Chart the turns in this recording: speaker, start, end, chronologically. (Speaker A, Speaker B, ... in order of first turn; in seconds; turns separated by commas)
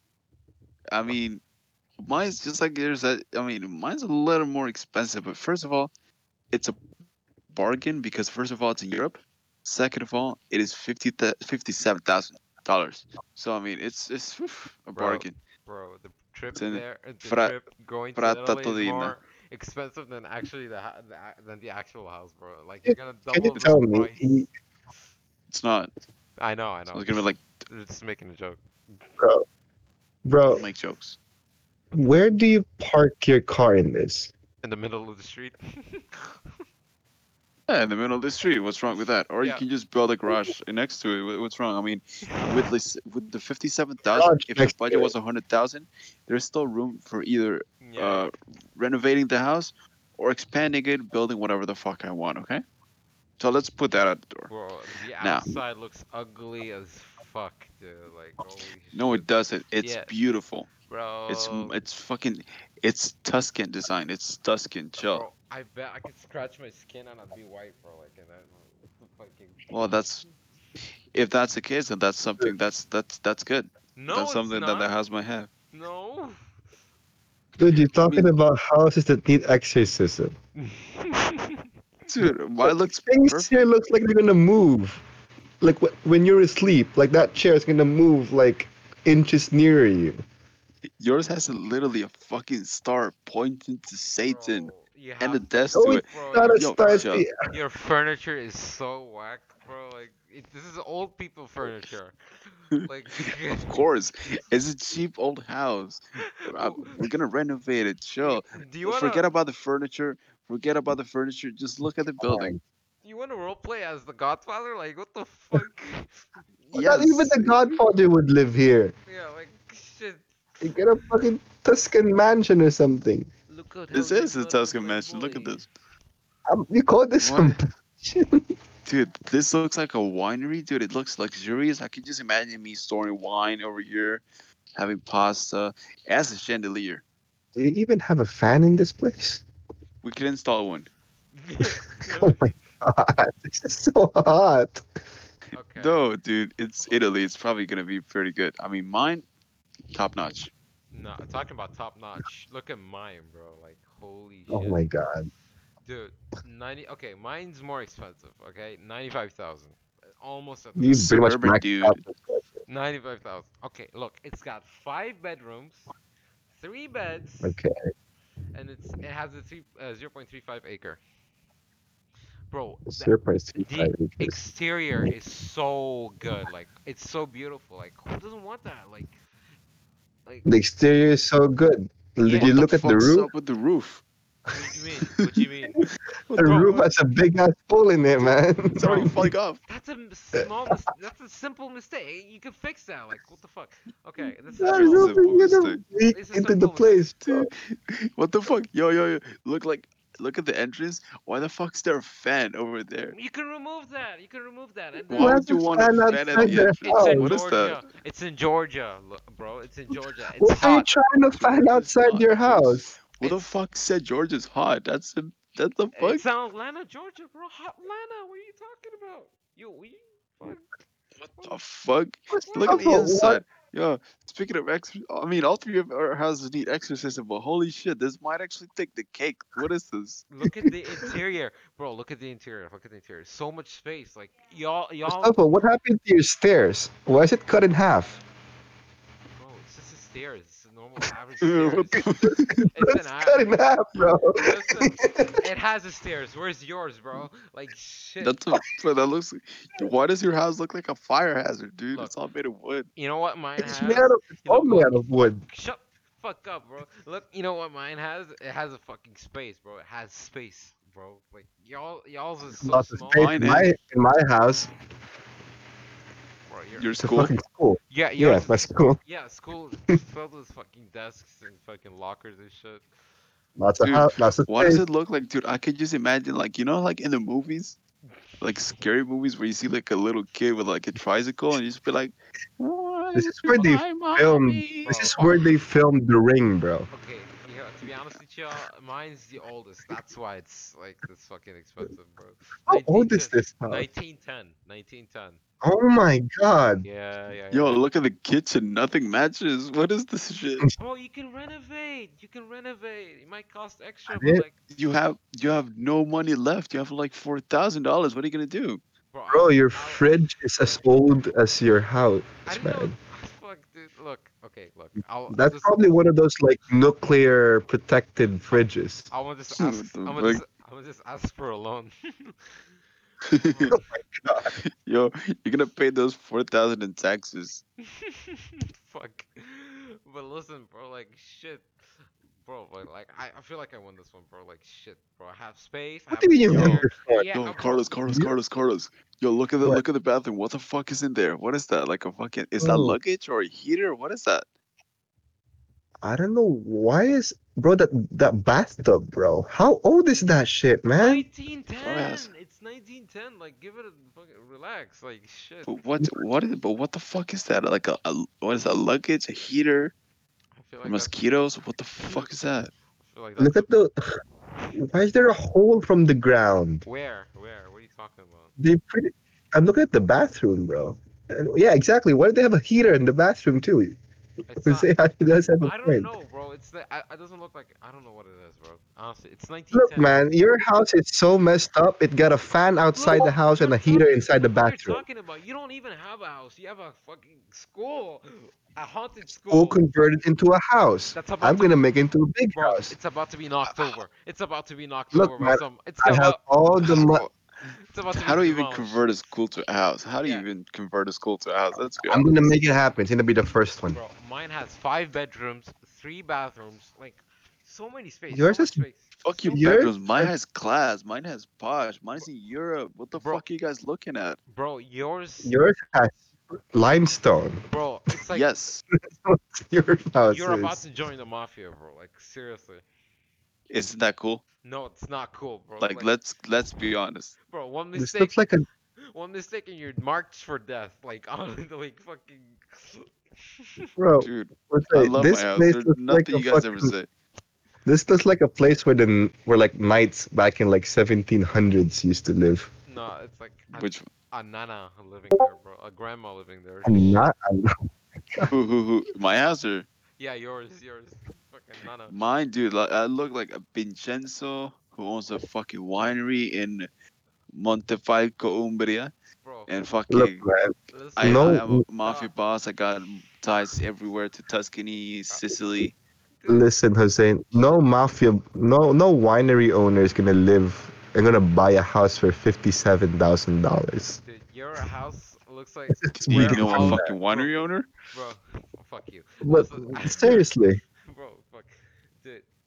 Speaker A: 0.9-1.4, Speaker A: 2.0-5.9, Speaker A: 6.5-6.8, Speaker A: 7.5-15.3, Speaker B: 14.9-24.3, Speaker A: 16.6-17.6, Speaker A: 18.2-19.2, Speaker C: 22.9-24.5, Speaker A: 25.5-25.9, Speaker B: 26.4-28.6, Speaker A: 26.9-27.4, Speaker C: 29.2-29.4, Speaker C: 30.2-30.6, Speaker A: 30.5-31.2, Speaker C: 31.9-34.3, Speaker B: 34.6-36.4, Speaker A: 37.7-52.6, Speaker B: 39.0-39.6, Speaker B: 42.3-42.6, Speaker C: 44.1-45.1, Speaker B: 47.8-48.3, Speaker A: 53.4-54.5, Speaker B: 54.5-59.3, Speaker A: 55.2-55.5, Speaker A: 58.9-60.7, Speaker B: 59.8-60.1, Speaker B: 60.9-61.8, Speaker A: 61.3-65.3, Speaker B: 65.0-70.0, Speaker A: 69.7-70.2, Speaker A: 71.1-75.5, Speaker B: 74.0-74.9, Speaker B: 75.7-76.4, Speaker C: 77.6-80.4, Speaker A: 77.9-78.3, Speaker B: 80.6-81.7, Speaker A: 82.1-83.5, Speaker C: 82.2-85.0, Speaker C: 85.6-90.2, Speaker A: 91.0-97.3, Speaker B: 94.2-103.8, Speaker C: 95.7-97.3, Speaker A: 102.7-112.6, Speaker B: 106.2-107.1, Speaker B: 108.2-109.2, Speaker C: 112.2-112.6, Speaker B: 113.0-117.1, Speaker A: 116.7-117.7, Speaker C: 116.7-118.9, Speaker B: 119.1-121.0, Speaker C: 120.6-123.3, Speaker B: 123.5-125.7, Speaker A: 123.9-125.7, Speaker C: 126.5-128.5, Speaker A: 127.2-127.6, Speaker A: 128.8-134.2, Speaker A: 134.8-137.0, Speaker C: 137.6-139.4, Speaker A: 140.0-140.9, Speaker B: 141.4-142.6, Speaker C: 142.2-144.8, Speaker B: 145.6-146.0, Speaker A: 145.8-149.2, Speaker B: 146.8-147.1, Speaker A: 149.9-150.5, Speaker B: 150.9-154.9, Speaker C: 154.5-155.3, Speaker B: 155.8-161.2, Speaker C: 160.8-162.5, Speaker A: 160.9-162.0, Speaker B: 162.7-165.9, Speaker B: 166.6-167.6, Speaker C: 167.4-167.8, Speaker B: 168.5-171.0, Speaker B: 172.5-179.2, Speaker C: 172.9-174.4, Speaker C: 180.4-183.3, Speaker B: 182.2-182.5, Speaker A: 182.4-184.0, Speaker B: 184.5-185.8, Speaker A: 186.3-186.8, Speaker B: 186.4-186.8, Speaker C: 186.4-189.3, Speaker A: 188.8-189.6, Speaker B: 188.8-189.1, Speaker B: 189.7-195.3, Speaker C: 194.6-197.5, Speaker A: 194.7-195.8, Speaker B: 196.1-197.1, Speaker A: 197.2-203.2, Speaker B: 203.1-205.4, Speaker A: 205.1-207.8, Speaker C: 205.1-207.3, Speaker B: 206.4-210.9, Speaker C: 210.4-212.8, Speaker A: 211.3-216.2, Speaker B: 216.0-221.6, Speaker A: 221.5-230.2, Speaker B: 222.3-223.0, Speaker C: 222.6-223.4, Speaker B: 230.3-235.4, Speaker C: 230.7-231.0, Speaker C: 235.1-238.2, Speaker B: 239.4-242.1, Speaker A: 241.4-242.7, Speaker C: 242.2-245.4, Speaker B: 242.7-243.5, Speaker B: 244.3-248.4, Speaker A: 248.2-252.9, Speaker B: 253.0-255.0, Speaker C: 253.6-255.4, Speaker B: 255.5-263.6, Speaker C: 262.6-264.7, Speaker A: 263.1-263.7, Speaker B: 266.5-267.0, Speaker A: 266.8-267.3, Speaker C: 267.0-269.0, Speaker B: 267.9-272.9, Speaker C: 273.6-274.8, Speaker A: 273.8-277.8, Speaker A: 278.4-285.4, Speaker C: 283.1-286.9, Speaker B: 284.9-285.3, Speaker B: 286.9-295.4, Speaker C: 292.7-293.9, Speaker C: 295.6-296.9, Speaker B: 296.8-297.8, Speaker A: 297.5-300.6, Speaker B: 300.8-304.6, Speaker C: 304.1-304.4, Speaker A: 304.7-308.8, Speaker B: 309.1-310.3, Speaker C: 309.3-312.9, Speaker B: 312.5-315.9, Speaker C: 315.3-319.1, Speaker B: 318.5-322.6, Speaker A: 319.6-320.4, Speaker A: 323.2-323.8, Speaker B: 323.4-323.8, Speaker C: 323.7-324.6, Speaker A: 324.6-327.6, Speaker B: 327.9-331.7, Speaker B: 332.4-338.0, Speaker C: 336.1-337.3, Speaker A: 336.5-344.4, Speaker C: 342.6-343.0, Speaker C: 346.0-351.2, Speaker B: 351.0-355.8, Speaker A: 351.8-352.3, Speaker A: 355.7-359.9, Speaker B: 360.6-361.2, Speaker A: 360.8-362.7, Speaker B: 362.0-362.3, Speaker B: 363.0-363.7, Speaker C: 363.4-363.9, Speaker C: 364.8-366.8, Speaker B: 366.9-368.5, Speaker C: 368.6-374.0, Speaker B: 374.5-374.9, Speaker C: 374.6-376.1, Speaker B: 375.6-380.3, Speaker C: 379.7-385.0, Speaker B: 383.0-389.8, Speaker C: 389.5-392.9, Speaker B: 391.1-391.8, Speaker B: 392.6-397.1, Speaker C: 395.1-397.2, Speaker A: 396.8-397.3, Speaker B: 397.9-399.1, Speaker A: 398.1-402.3, Speaker B: 400.2-400.5, Speaker C: 402.1-404.0, Speaker B: 403.9-409.8, Speaker C: 408.3-408.8, Speaker A: 409.2-414.4, Speaker C: 409.5-410.3, Speaker B: 413.1-413.4, Speaker B: 414.5-415.6, Speaker C: 415.4-417.6, Speaker B: 417.7-418.5, Speaker A: 418.3-418.8, Speaker C: 419.2-420.8, Speaker B: 420.3-422.8, Speaker A: 423.7-424.4, Speaker B: 424.6-426.1, Speaker A: 425.8-427.4, Speaker B: 427.5-428.4, Speaker C: 427.9-428.7, Speaker B: 429.0-433.9, Speaker C: 434.0-436.9, Speaker A: 434.2-437.1, Speaker C: 437.9-442.7, Speaker B: 442.9-447.2, Speaker A: 443.8-444.0, Speaker C: 446.9-448.5, Speaker A: 448.5-449.9, Speaker B: 450.2-452.1, Speaker A: 452.1-456.9, Speaker A: 457.5-459.1, Speaker B: 459.4-459.9, Speaker A: 459.7-460.5, Speaker C: 460.1-461.8, Speaker B: 460.9-462.3, Speaker A: 461.2-465.9, Speaker B: 466.4-466.7, Speaker C: 466.5-474.2, Speaker B: 467.5-467.9, Speaker B: 474.2-480.5, Speaker C: 476.1-477.1, Speaker A: 476.2-477.9, Speaker C: 479.4-480.8, Speaker B: 481.0-482.5